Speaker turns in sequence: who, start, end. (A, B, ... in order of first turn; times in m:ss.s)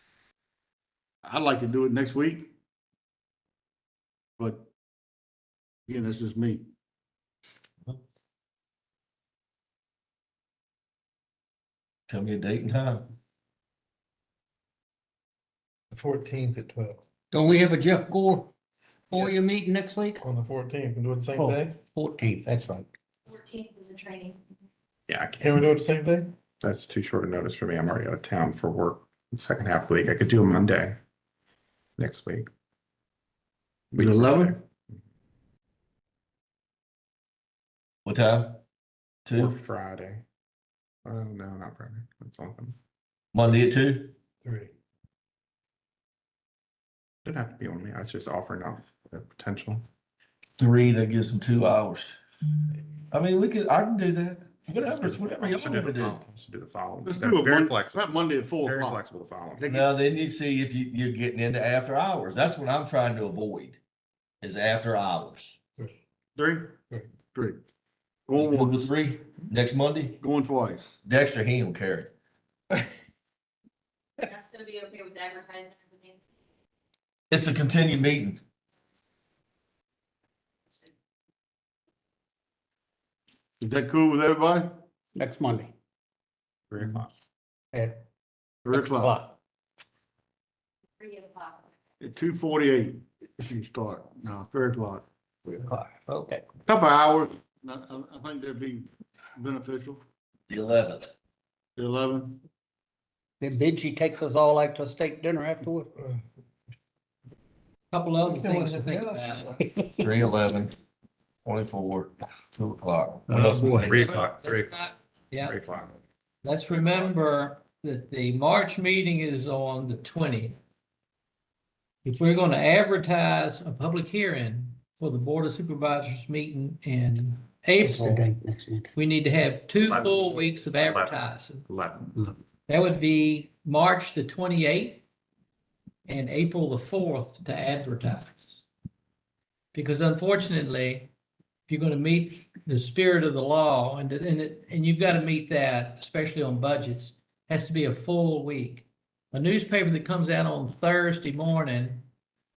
0:01.2-0:02.5 A
0:04.4-0:04.7 A
0:05.9-0:06.7 A
0:12.1-0:13.1 B
0:15.9-0:17.0 C
0:17.3-0:18.5 D
0:19.1-0:20.2 D
0:20.2-0:21.8 C
0:21.4-0:22.9 D
0:23.3-0:24.4 E
0:25.1-0:25.6 F
0:25.4-0:26.4 C
0:26.6-0:31.0 F
0:32.0-0:32.5 F
0:33.9-0:34.6 F
0:34.0-0:34.6 A
0:38.1-0:38.6 B
0:39.3-0:39.5 B
0:39.4-0:40.2 F
0:41.0-0:42.8 F
0:43.3-0:44.2 B
0:44.4-0:44.7 C
0:47.2-0:49.8 F
0:50.6-0:52.2 B
0:53.1-0:56.2 B
0:54.9-0:59.7 F
0:57.0-0:59.0 A
0:59.6-0:59.9 A
0:59.7-1:03.8 B
1:04.4-1:05.6 B
1:06.4-1:06.8 A
1:07.3-1:07.6 A
1:08.3-1:08.9 A
1:08.4-1:10.2 B
1:10.2-1:11.0 A
1:11.0-1:12.1 B
1:14.2-1:16.2 E
1:17.3-1:18.4 B
1:23.6-1:24.8 A
1:25.2-1:25.7 D
1:26.7-1:27.1 F
1:27.7-1:28.0 D
1:28.6-1:29.1 A
1:28.7-1:29.4 D
1:31.0-1:31.6 E
1:32.0-1:35.1 A
1:35.5-1:36.4 D
1:36.7-1:40.0 A
1:40.5-1:41.1 B
1:41.8-1:42.4 A
1:43.4-1:45.9 D
1:47.9-1:49.5 G
1:48.2-1:49.6 C
1:49.6-1:49.9 D
1:50.0-1:50.8 B
1:51.4-1:53.6 B
1:53.3-1:54.2 D
1:53.3-1:54.7 F
1:53.8-1:55.6 G
1:55.4-1:56.0 F
1:56.4-2:00.6 G
1:56.8-1:57.0 F
2:02.0-2:08.3 G
2:07.8-2:08.9 D
2:09.0-2:11.7 G
2:09.8-2:12.2 F
2:12.7-2:15.0 G
2:16.1-2:18.6 G
2:19.7-2:21.1 G
2:21.7-2:32.1 G